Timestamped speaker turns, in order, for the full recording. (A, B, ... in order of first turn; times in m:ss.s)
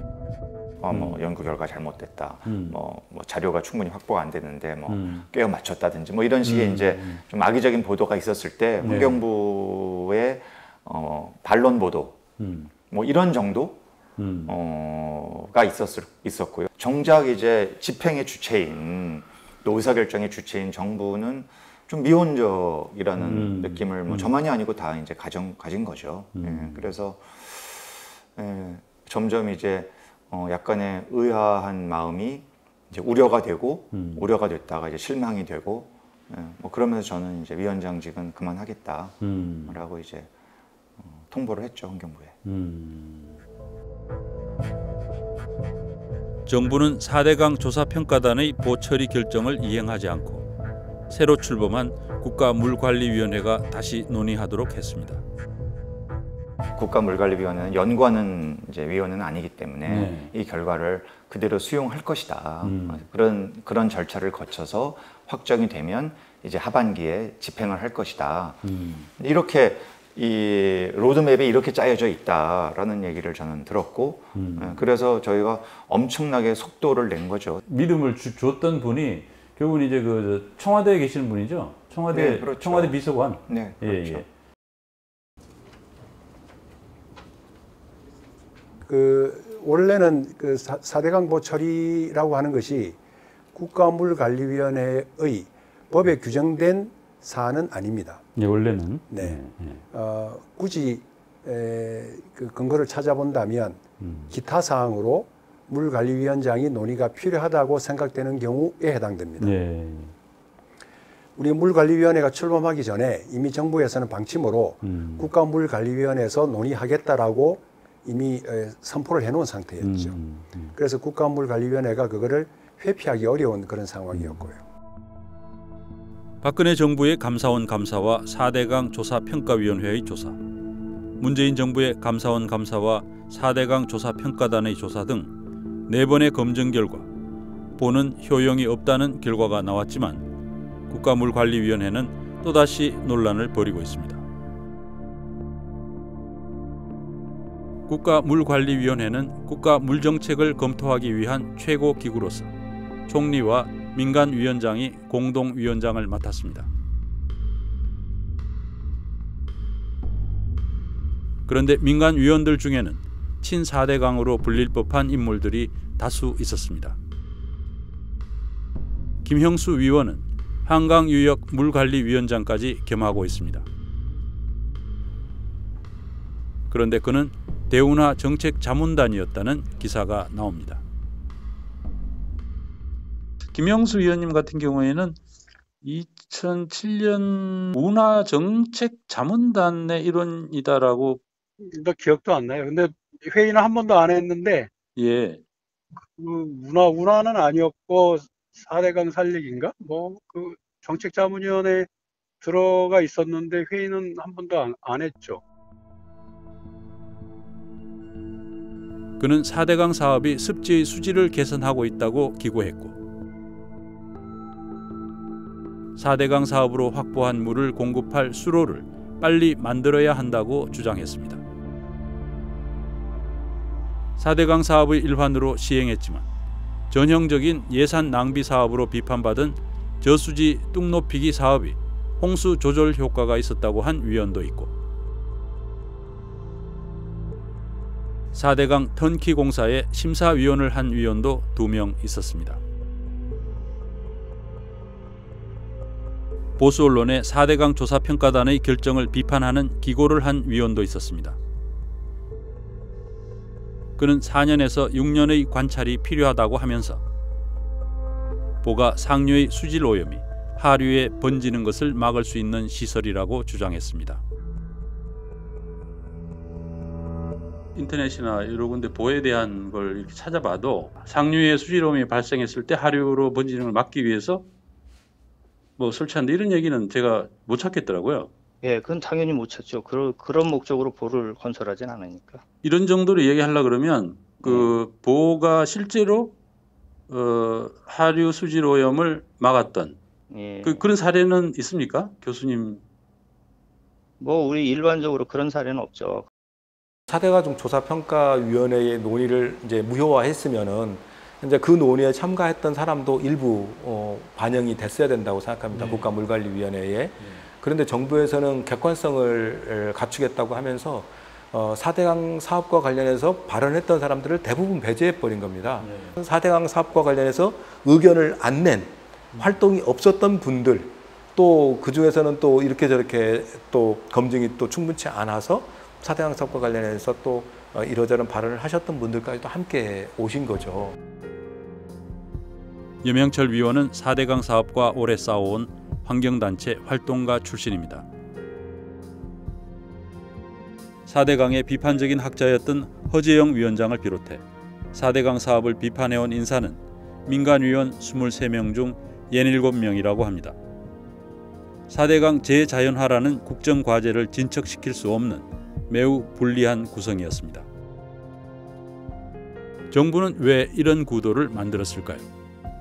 0:00.8-0:12.2 A
0:00.9-0:01.3 B
0:02.5-0:02.8 B
0:04.9-0:05.3 B
0:06.4-0:07.2 B
0:08.8-0:09.2 B
0:12.4-0:12.7 B
0:12.9-0:13.8 A
0:14.2-0:14.5 B
0:14.5-0:40.3 A
0:23.2-0:24.3 B
0:26.4-0:27.0 B
0:33.9-0:34.3 B
0:39.2-0:39.8 B
0:41.0-0:42.4 A
0:42.4-0:43.4 B
0:46.5-0:50.5 B
0:51.1-0:55.2 B
0:56.8-1:08.6 A
0:59.9-1:00.3 B
1:02.6-1:03.0 B
1:08.6-1:09.1 B
1:09.2-1:17.6 A
1:14.4-1:14.8 B
1:17.7-1:24.3 B
1:22.1-1:24.2 A
1:28.9-1:33.0 C
1:33.5-1:38.2 C
1:38.4-1:39.8 B
1:39.1-1:49.6 C
1:44.0-1:44.4 B
1:49.4-1:50.1 B
1:51.4-2:00.2 C
1:54.8-1:55.3 B
1:59.8-2:00.8 B
2:00.8-2:04.6 C
2:04.1-2:04.5 B
2:06.4-2:10.4 B
2:11.2-2:15.3 B
2:15.9-2:17.1 B
2:17.8-2:20.3 B
2:20.9-2:24.2 B
2:27.9-2:32.5 B
2:33.1-2:36.7 B
2:41.5-2:47.0 B
2:49.2-2:53.7 B
2:56.7-3:00.8 B
3:03.5-3:05.2 B
3:05.8-3:11.2 B
3:11.6-3:14.7 D
3:15.0-3:15.4 B
3:16.0-3:21.9 D
3:22.4-3:25.4 D
3:29.2-3:33.0 B
3:36.0-3:41.4 B
3:44.2-3:46.3 B
3:46.9-3:54.7 B
3:58.3-4:02.6 B
4:06.6-4:11.4 B
4:14.0-4:17.0 B
4:18.6-4:24.2 B
4:27.8-4:34.4 B
4:35.8-4:38.3 B
4:38.6-4:42.4 E
4:42.6-4:46.4 B
4:44.4-4:44.7 E
4:47.1-4:50.0 B
4:50.3-4:50.9 E
4:50.6-4:52.8 B
4:54.2-4:56.3 E
4:57.1-5:31.0 F
5:05.7-5:06.2 B
5:07.2-5:07.5 B
5:15.8-5:16.2 B
5:33.0-5:38.1 B
5:41.1-5:50.6 B
5:51.9-5:57.7 B
5:59.9-6:02.3 B